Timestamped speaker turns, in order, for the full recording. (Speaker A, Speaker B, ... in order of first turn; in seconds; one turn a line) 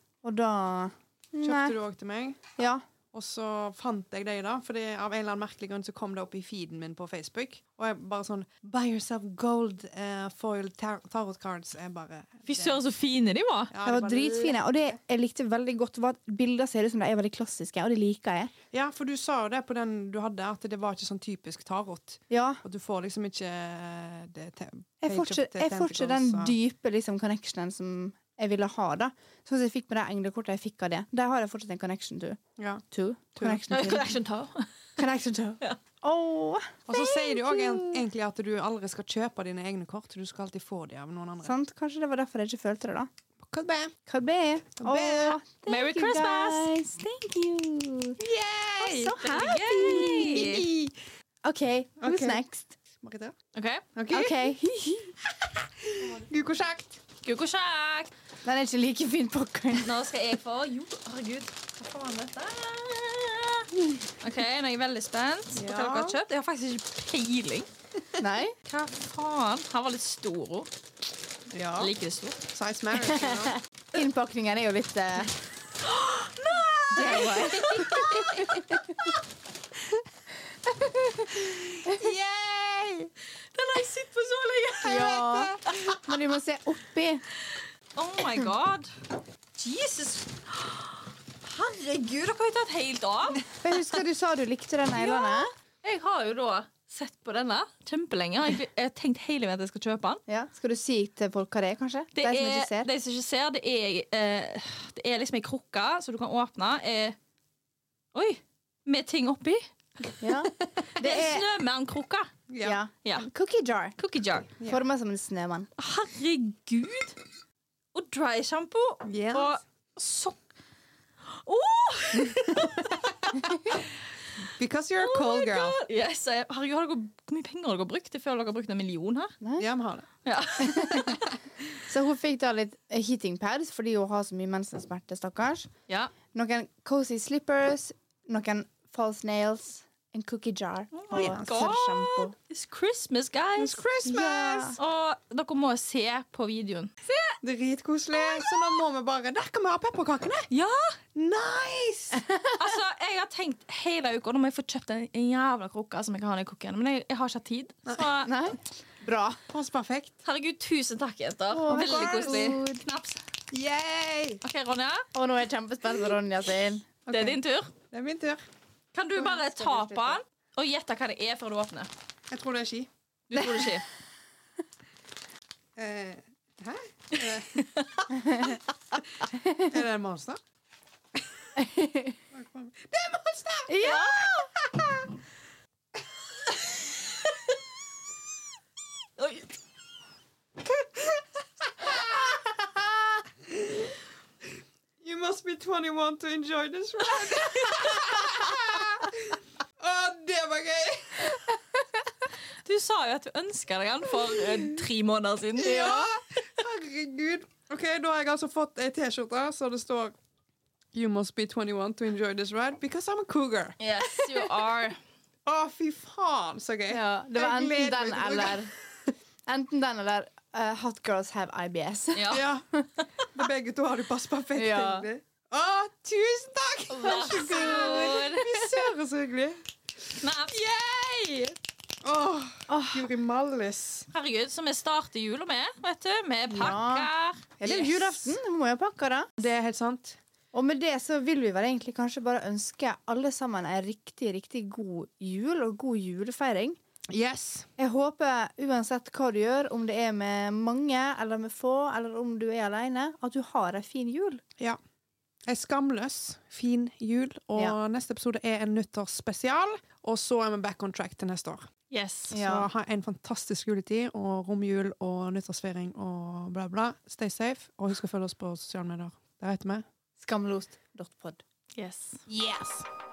Speaker A: 0.2-1.8
Speaker B: 1.4-2.4
Speaker A: 2.5-2.8
Speaker B: 3.1-12.8
Speaker C: 12.5-13.7
Speaker B: 13.7-15.0
Speaker A: 13.8-18.5
Speaker B: 18.7-26.5
Speaker A: 22.3-22.6
Speaker A: 25.0-32.4
Speaker B: 32.6-32.8
Speaker A: 32.9-34.2
Speaker B: 33.4-33.6
Speaker C: 33.7-34.7
Speaker A: 35.0-38.0
Speaker B: 36.9-41.5
Speaker A: 41.4-43.1
Speaker B: 43.4-43.9
Speaker A: 44.0-48.2
Speaker B: 44.8-45.4
Speaker C: 45.6-46.7
Speaker B: 48.2-49.2
Speaker A: 48.8-50.5
Speaker C: 49.2-50.7
Speaker B: 49.8-51.0
Speaker A: 51.4-52.8
Speaker B: 52.0-53.3
Speaker C: 53.5-53.8
Speaker B: 53.9-54.5
Speaker A: 54.1-55.1
Speaker B: 55.5-56.9
Speaker C: 57.2-58.1
Speaker A: 58.4-60.0
Speaker C: 59.8-67.7
Speaker A: 65.6-66.0
Speaker B: 65.6-66.1
Speaker A: 68.2-68.5
Speaker C: 68.7-70.7
Speaker B: 71.5-71.9
Speaker C: 71.8-72.5
Speaker B: 72.5-73.6
Speaker A: 73.1-75.4
Speaker C: 75.8-78.3
Speaker A: 76.9-79.1
Speaker B: 77.8-78.5
Speaker A: 80.7-82.1
Speaker B: 81.4-83.1
Speaker C: 83.5-86.0
Speaker A: 84.8-87.2
Speaker B: 85.3-86.0
Speaker C: 87.4-93.5
Speaker A: 93.6-95.5
Speaker C: 94.9-100.2
Speaker A: 100.3-102.9
Speaker C: 102.1-107.2
Speaker C: 108.1-110.3
Speaker A: 110.2-111.5
Speaker C: 110.8-112.3
Speaker B: 112.5-112.8
Speaker A: 112.6-114.0
Speaker C: 113.0-113.3
Speaker C: 114.0-114.5
Speaker A: 114.6-115.7
Speaker C: 115.8-117.2
Speaker C: 117.9-120.4
Speaker B: 119.0-119.5
Speaker C: 121.2-123.9
Speaker B: 124.4-125.8
Speaker C: 125.0-129.4
Speaker A: 129.4-129.7
Speaker B: 129.6-130.1
Speaker C: 130.2-131.3
Speaker A: 130.6-131.1
Speaker A: 131.8-135.7
Speaker A: 136.3-142.3
Speaker C: 140.9-143.9
Speaker B: 141.1-141.7
Speaker B: 143.6-144.8
Speaker A: 144.1-144.8
Speaker C: 144.7-147.4
Speaker B: 147.4-150.5
Speaker C: 148.2-148.7
Speaker C: 150.5-151.0
Speaker B: 151.1-152.2
Speaker A: 152.1-152.6
Speaker C: 152.5-158.3
Speaker A: 158.2-159.4
Speaker B: 159.5-160.2
Speaker C: 160.2-163.2
Speaker A: 161.5-162.8
Speaker B: 161.7-162.6
Speaker B: 163.5-164.4
Speaker C: 164.4-165.1
Speaker A: 165.1-167.0
Speaker B: 167.1-167.4
Speaker C: 167.1-167.7
Speaker B: 167.9-168.4
Speaker C: 168.9-171.9
Speaker A: 169.2-170.2
Speaker B: 172.3-172.9
Speaker C: 173.3-173.9
Speaker A: 173.3-173.8
Speaker B: 175.8-177.6
Speaker C: 177.2-178.1
Speaker A: 178.2-178.4
Speaker B: 178.3-178.6
Speaker B: 179.6-180.4
Speaker B: 181.2-181.6
Speaker A: 181.6-182.2
Speaker B: 182.3-184.3
Speaker A: 183.7-184.3
Speaker C: 183.8-184.4
Speaker C: 189.2-189.5
Speaker B: 191.8-192.7
Speaker B: 193.5-193.9
Speaker B: 195.0-201.4
Speaker C: 197.4-198.1
Speaker C: 202.6-206.0
Speaker B: 205.6-210.1
Speaker A: 205.6-206.1
Speaker B: 210.9-214.5
Speaker C: 213.8-215.0
Speaker B: 215.4-218.7
Speaker A: 216.9-218.7
Speaker A: 219.4-222.9
Speaker C: 222.1-222.4
Speaker B: 222.3-222.6
Speaker B: 223.3-229.6
Speaker A: 224.6-225.1
Speaker C: 226.9-228.7
Speaker A: 227.0-228.2
Speaker C: 230.2-230.6
Speaker B: 230.6-234.1
Speaker A: 232.7-233.1
Speaker C: 234.1-237.4
Speaker A: 236.5-239.3
Speaker B: 237.6-238.4
Speaker B: 239.4-240.2
Speaker A: 240.5-246.8
Speaker B: 247.1-247.7
Speaker A: 247.8-254.4
Speaker B: 255.5-261.7
Speaker C: 261.9-262.4
Speaker B: 262.3-269.8
Speaker A: 262.3-262.7
Speaker A: 270.2-271.4
Speaker C: 271.8-272.2
Speaker B: 272.3-272.9